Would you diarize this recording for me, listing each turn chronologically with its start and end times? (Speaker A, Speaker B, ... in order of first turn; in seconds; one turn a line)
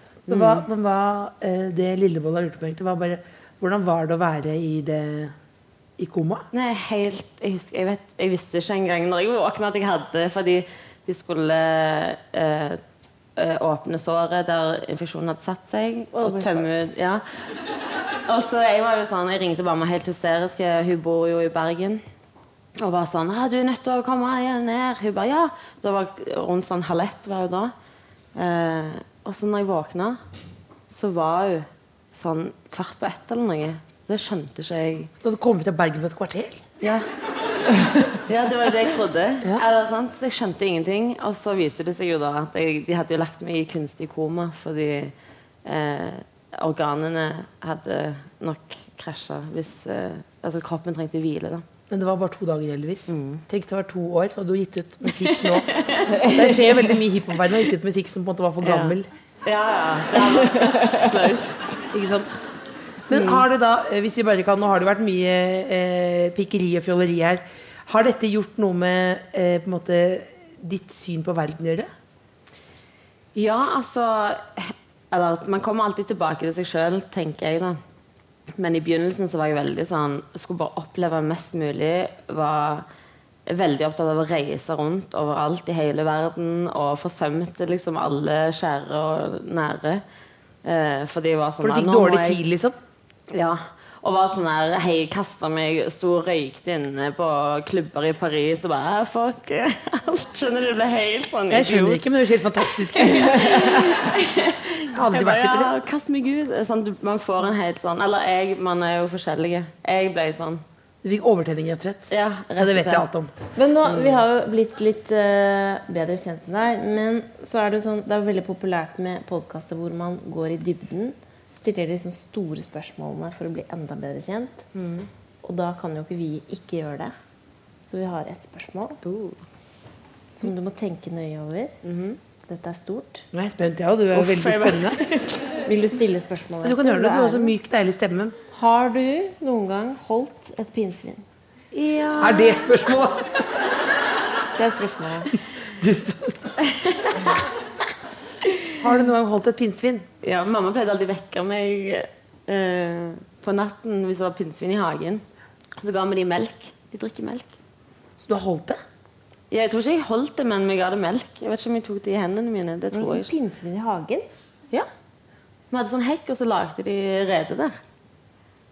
Speaker A: 0.3-0.7
Speaker B: 0.3-5.3
Speaker B: 6.0-6.5
Speaker A: 6.5-12.8
Speaker A: 13.4-17.2
Speaker C: 16.1-16.6
Speaker A: 18.3-22.0
Speaker A: 22.8-27.7
Speaker A: 28.4-30.2
Speaker A: 30.9-35.1
Speaker B: 35.2-36.6
Speaker A: 36.8-37.1
Speaker A: 38.1-45.1
Speaker A: 45.6-51.6
Speaker B: 51.9-55.7
Speaker A: 53.1-53.4
Speaker A: 55.0-56.5
Speaker C: 56.2-56.5
Speaker B: 56.3-59.1
Speaker A: 58.6-61.6
Speaker C: 60.3-61.1
Speaker B: 61.9-62.5
Speaker B: 63.1-71.9
Speaker A: 63.1-63.4
Speaker A: 73.3-77.8
Speaker A: 78.6-82.9
Speaker A: 83.5-90.0
Speaker A: 90.6-92.4
Speaker B: 91.6-92.8
Speaker A: 93.3-110.6
Speaker B: 101.5-104.0
Speaker B: 104.9-105.7
Speaker B: 111.0-113.3
Speaker A: 112.1-113.1
Speaker C: 113.6-124.6
Speaker A: 113.8-114.2
Speaker B: 124.8-125.1
Speaker C: 125.4-127.1
Speaker C: 127.8-129.0
Speaker A: 129.1-129.4
Speaker C: 130.4-131.8
Speaker A: 131.8-132.2
Speaker C: 132.4-133.2
Speaker B: 133.3-135.0
Speaker A: 134.1-135.4
Speaker C: 135.6-137.5
Speaker B: 136.6-138.4
Speaker C: 138.5-141.2
Speaker A: 141.7-142.9
Speaker B: 142.2-143.3
Speaker C: 144.6-145.3
Speaker B: 145.8-146.6
Speaker A: 146.6-147.3
Speaker B: 148.8-150.1
Speaker A: 150.2-155.2
Speaker A: 155.8-157.5
Speaker B: 158.2-158.8
Speaker A: 159.5-163.3
Speaker C: 162.9-164.3
Speaker A: 165.7-167.8